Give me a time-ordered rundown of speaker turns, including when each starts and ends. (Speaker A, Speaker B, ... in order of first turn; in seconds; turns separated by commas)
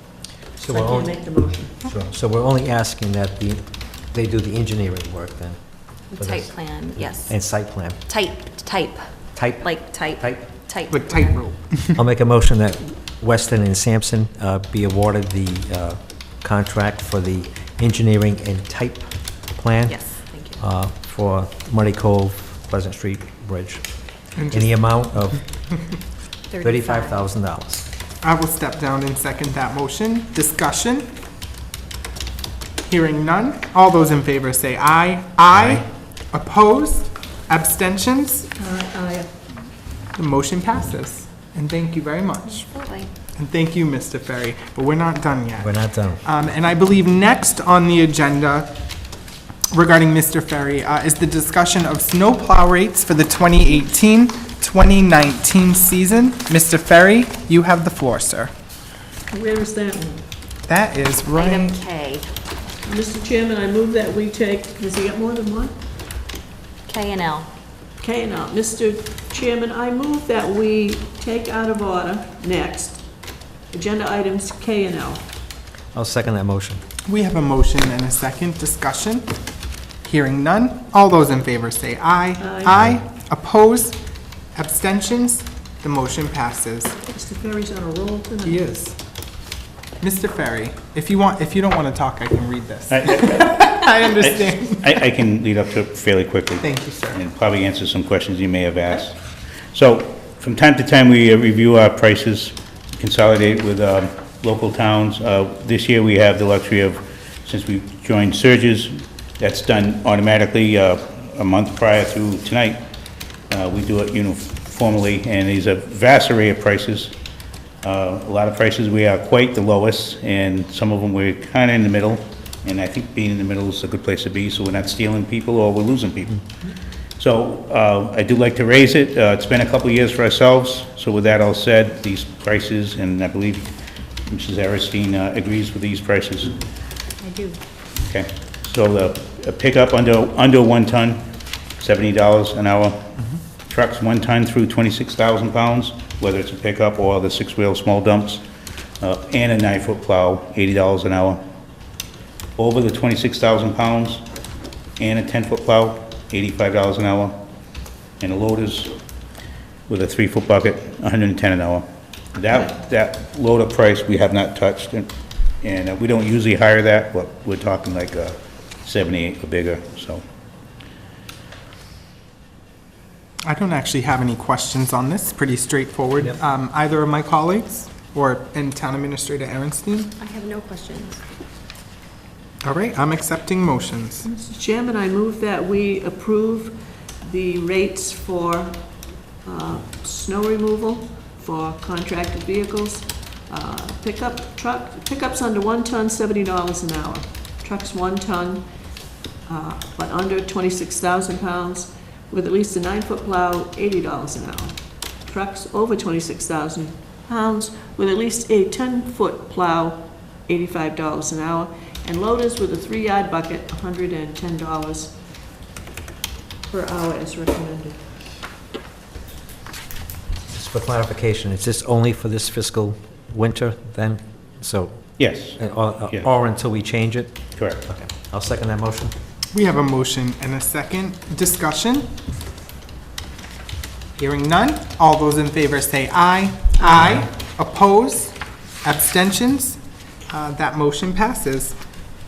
Speaker A: 0.6-1.2, Speaker B: 0.7-1.8, Speaker A: 1.9-5.6, Speaker A: 6.1-8.0, Speaker C: 6.1-7.4, Speaker C: 8.1-9.0, Speaker A: 9.3-10.5, Speaker C: 9.6-11.4, Speaker D: 10.9-12.0, Speaker A: 11.9-23.9, Speaker C: 19.9-20.6, Speaker D: 24.4-24.7, Speaker A: 24.5-25.4, Speaker C: 26.5-27.2, Speaker A: 26.6-27.9, Speaker D: 28.2-31.1, Speaker D: 32.9-38.5, Speaker E: 35.5-35.8, Speaker B: 38.6-39.3, Speaker D: 40.1-42.7, Speaker C: 42.5-43.1, Speaker D: 43.4-48.7, Speaker A: 45.6-46.2, Speaker D: 49.7-58.5, Speaker B: 59.3-60.2, Speaker D: 60.7-61.8, Speaker C: 61.3-62.2, Speaker B: 62.8-65.8, Speaker C: 66.9-67.5, Speaker B: 68.0-73.0, Speaker B: 73.7-75.2, Speaker A: 75.9-76.8, Speaker D: 77.1-79.3, Speaker D: 80.0-84.0, Speaker B: 82.4-82.8, Speaker D: 84.5-86.9, Speaker B: 87.0-88.6, Speaker D: 88.4-89.0, Speaker D: 90.0-95.1, Speaker E: 92.9-99.2, Speaker D: 96.6-97.2, Speaker E: 99.7-112.8, Speaker E: 113.5-117.1, Speaker E: 117.8-126.5, Speaker E: 127.2-133.8, Speaker E: 134.3-136.6, Speaker C: 137.2-137.5, Speaker E: 138.0-141.3, Speaker E: 141.8-143.1, Speaker E: 143.7-148.4, Speaker E: 149.0-151.4, Speaker E: 152.6-154.2, Speaker E: 155.0-157.4, Speaker E: 158.2-158.9, Speaker E: 159.9-165.1, Speaker E: 165.6-170.2, Speaker D: 173.4-180.1, Speaker C: 180.2-181.2, Speaker D: 182.6-184.3, Speaker B: 184.2-188.8, Speaker B: 189.4-198.6, Speaker B: 199.5-215.2, Speaker B: 216.7-218.0, Speaker A: 220.5-229.1, Speaker E: 225.2-226.3, Speaker E: 227.6-227.8, Speaker D: 229.5-232.1, Speaker D: 234.2-239.8, Speaker D: 240.3-241.8